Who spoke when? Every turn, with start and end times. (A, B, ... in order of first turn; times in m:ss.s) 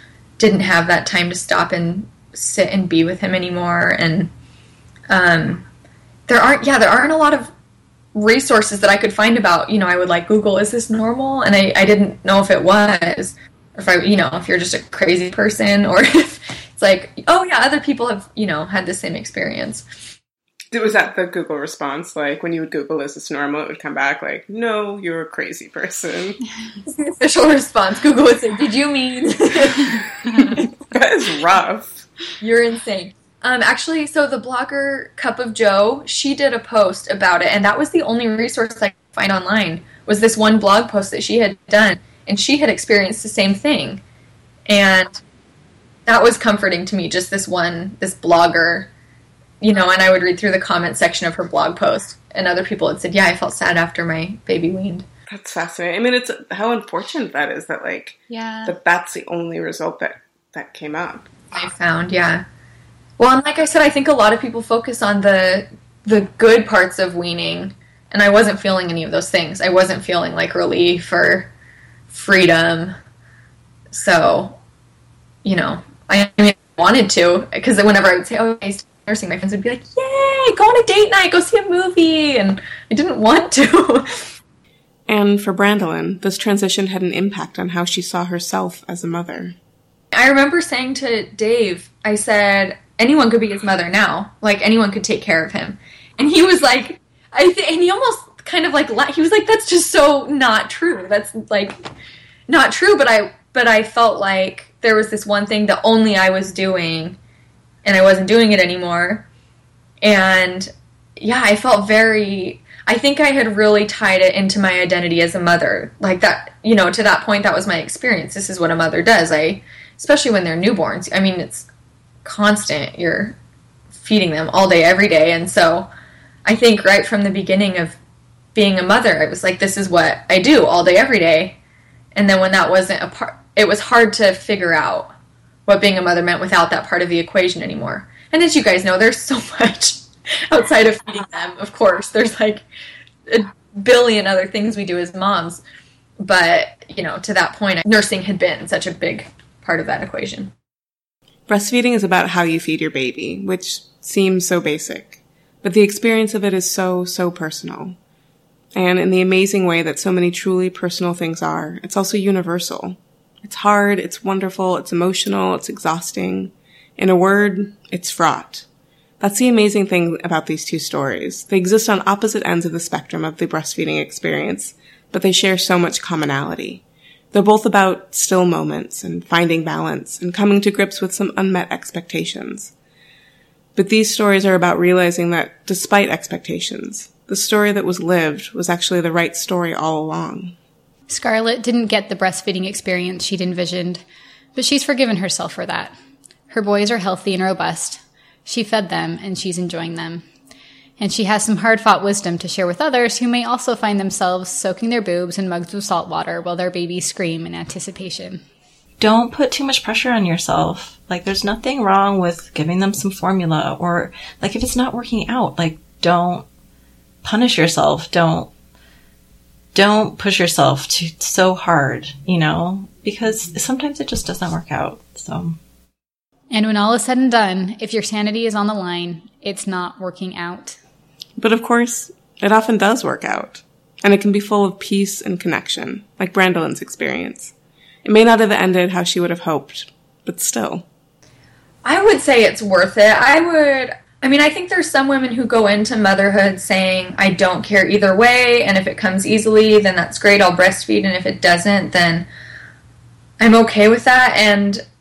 0:00.4-0:04.3 A
0:05.1-0:05.6 A
0:06.3-0:07.5 A
0:08.1-0:19.8 A
0:20.7-0:26.4 B
0:26.8-0:30.7 A
0:30.8-0:32.1 B
0:32.4-0:44.0 A
0:44.7-0:45.1 A
0:46.0-0:48.9 A
0:49.6-0:55.0 A
0:55.3-1:01.3 B
0:58.3-0:58.7 C
1:01.5-1:02.4 A
1:03.2-1:11.5 A
1:12.1-1:13.0 A
1:13.9-1:14.6 A
1:15.4-1:24.3 A
1:25.1-1:29.5 B
1:30.1-1:41.8 A
1:42.5-1:47.2 A
1:47.8-1:49.3 A
1:50.0-2:01.7 A
2:02.2-2:03.4 A
2:03.9-2:05.9 A
2:06.4-2:08.0 A
2:08.5-2:11.6 A
2:12.1-2:15.1 A
2:15.6-2:22.6 A
2:23.3-2:25.6 A
2:26.2-2:30.5 A
2:31.5-2:38.0 B
2:38.7-2:48.6 B
2:49.2-3:02.7 B
3:03.7-3:10.6 B
3:11.1-3:14.0 C
3:14.5-3:16.0 C
3:16.5-3:20.2 C
3:21.0-3:28.4 C
3:29.0-3:36.4 D
3:37.2-3:38.5 D
3:39.7-3:45.6 D
3:46.5-3:50.8 C
3:51.4-3:57.5 B
3:58.0-4:00.8 B
4:01.8-4:12.2 A
4:13.4-4:14.8 A